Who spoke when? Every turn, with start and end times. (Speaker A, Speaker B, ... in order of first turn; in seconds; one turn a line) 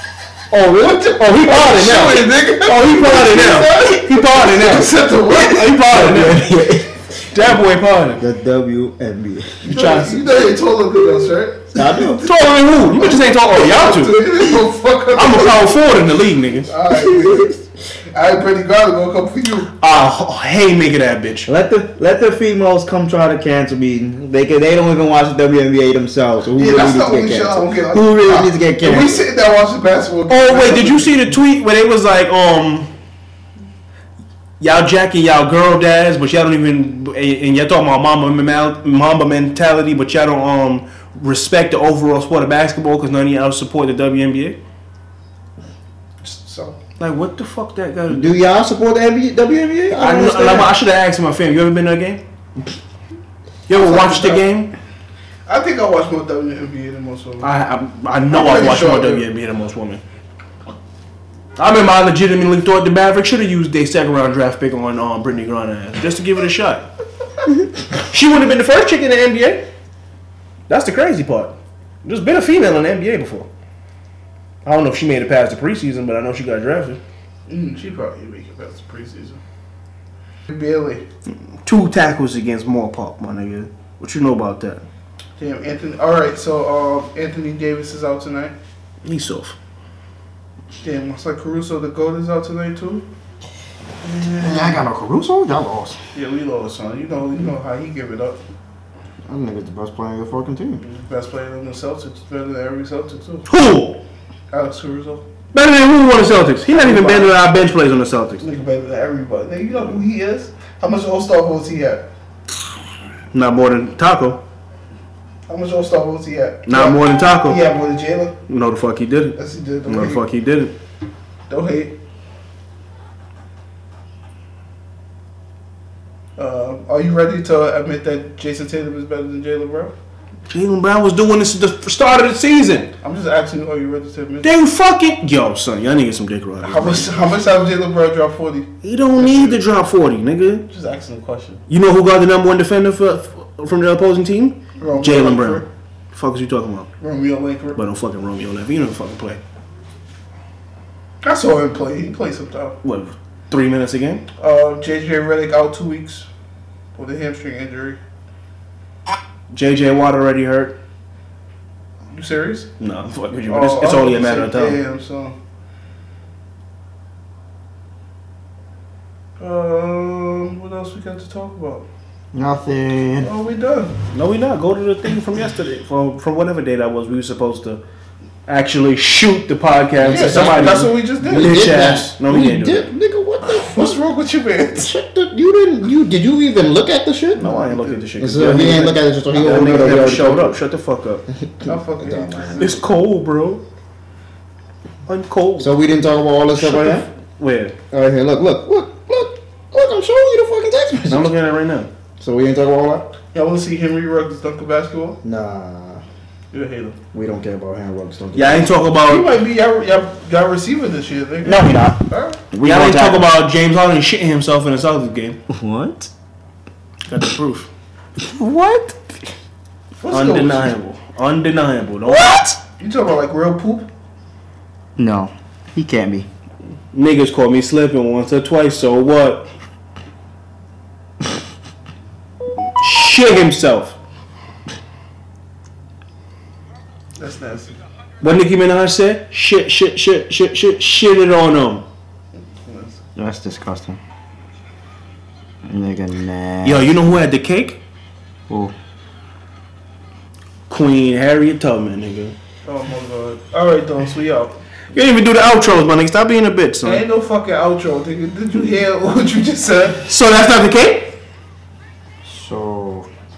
Speaker A: 0.5-8.2
Speaker B: 0.7-5.9
Speaker C: 5.8-7.5
Speaker C: 8.2-9.8
Speaker B: 9.7-12.0
Speaker A: 9.7-10.2
Speaker C: 11.7-12.3
Speaker A: 12.2-14.3
Speaker B: 12.9-15.7
Speaker A: 15.2-16.7
Speaker B: 16.7-19.7
Speaker A: 19.8-21.5
Speaker C: 21.5-29.3
Speaker B: 26.6-31.3
Speaker A: 30.3-32.9
Speaker A: 34.6-44.6
Speaker B: 46.2-46.8
Speaker A: 47.0-48.4
Speaker C: 48.1-50.8
Speaker A: 49.9-52.2
Speaker A: 53.7-54.7
Speaker B: 53.7-54.5
Speaker B: 55.5-57.5
Speaker A: 57.4-60.0
Speaker B: 58.3-59.2
Speaker A: 61.6-66.9
Speaker A: 67.9-69.7
Speaker A: 70.7-73.5
Speaker A: 74.7-77.0
Speaker B: 77.5-79.4
Speaker B: 80.5-81.0
Speaker A: 81.6-84.8
Speaker B: 85.4-88.5
Speaker A: 89.0-89.5
Speaker B: 90.8-93.1
Speaker B: 94.0-94.9
Speaker C: 94.4-96.0
Speaker B: 96.1-98.4
Speaker C: 99.2-100.8
Speaker B: 100.8-103.5
Speaker A: 103.5-104.0
Speaker B: 104.5-105.2
Speaker A: 105.5-108.4
Speaker B: 106.7-107.4
Speaker B: 108.4-112.1
Speaker A: 113.3-114.4
Speaker B: 115.5-118.4
Speaker A: 116.7-117.6
Speaker A: 118.5-120.8
Speaker B: 119.4-120.2
Speaker B: 121.5-121.9
Speaker B: 126.4-129.9
Speaker A: 130.5-132.9
Speaker B: 133.0-134.5
Speaker A: 134.4-137.1
Speaker B: 136.6-139.6
Speaker A: 138.8-140.7
Speaker B: 140.7-141.6
Speaker A: 141.7-146.9
Speaker B: 144.8-145.7
Speaker B: 147.0-147.8
Speaker A: 147.8-149.4
Speaker B: 151.2-152.8
Speaker A: 152.8-154.2
Speaker B: 154.4-156.3
Speaker B: 156.9-158.0
Speaker A: 159.5-160.8
Speaker B: 162.1-162.7
Speaker A: 162.8-164.8
Speaker B: 163.5-165.4
Speaker B: 169.4-171.8
Speaker C: 172.3-173.3
Speaker B: 173.2-173.9
Speaker A: 174.1-177.8
Speaker A: 178.5-182.9
Speaker B: 180.0-181.9
Speaker C: 180.1-184.0
Speaker B: 183.5-184.9
Speaker C: 184.8-187.5
Speaker A: 187.4-191.2
Speaker B: 187.4-190.3
Speaker C: 188.2-190.6
Speaker C: 191.5-192.6
Speaker B: 191.7-192.9
Speaker A: 192.6-193.6
Speaker A: 195.1-195.8
Speaker C: 195.6-197.1
Speaker A: 196.6-197.8
Speaker C: 197.9-201.3
Speaker A: 201.1-201.9
Speaker C: 202.2-203.1
Speaker B: 203.3-205.2
Speaker C: 205.2-206.0
Speaker B: 206.5-207.0
Speaker C: 207.1-208.7
Speaker A: 208.3-209.3
Speaker B: 209.1-212.4
Speaker C: 211.4-213.3
Speaker A: 212.6-215.4
Speaker C: 215.5-216.1
Speaker A: 217.1-217.7
Speaker C: 218.2-219.3
Speaker B: 220.0-220.7
Speaker A: 220.1-222.6
Speaker C: 222.1-222.6
Speaker B: 222.8-223.9
Speaker C: 225.0-226.3
Speaker A: 226.9-229.5
Speaker A: 232.8-234.0
Speaker B: 237.2-237.8
Speaker A: 238.2-241.9
Speaker B: 242.7-243.0
Speaker C: 243.2-244.0
Speaker C: 245.7-246.9
Speaker A: 246.6-247.8
Speaker C: 248.5-248.7
Speaker A: 250.7-252.3
Speaker B: 252.7-254.6
Speaker A: 254.9-257.0
Speaker B: 256.8-260.1
Speaker A: 260.1-261.2
Speaker C: 262.2-263.1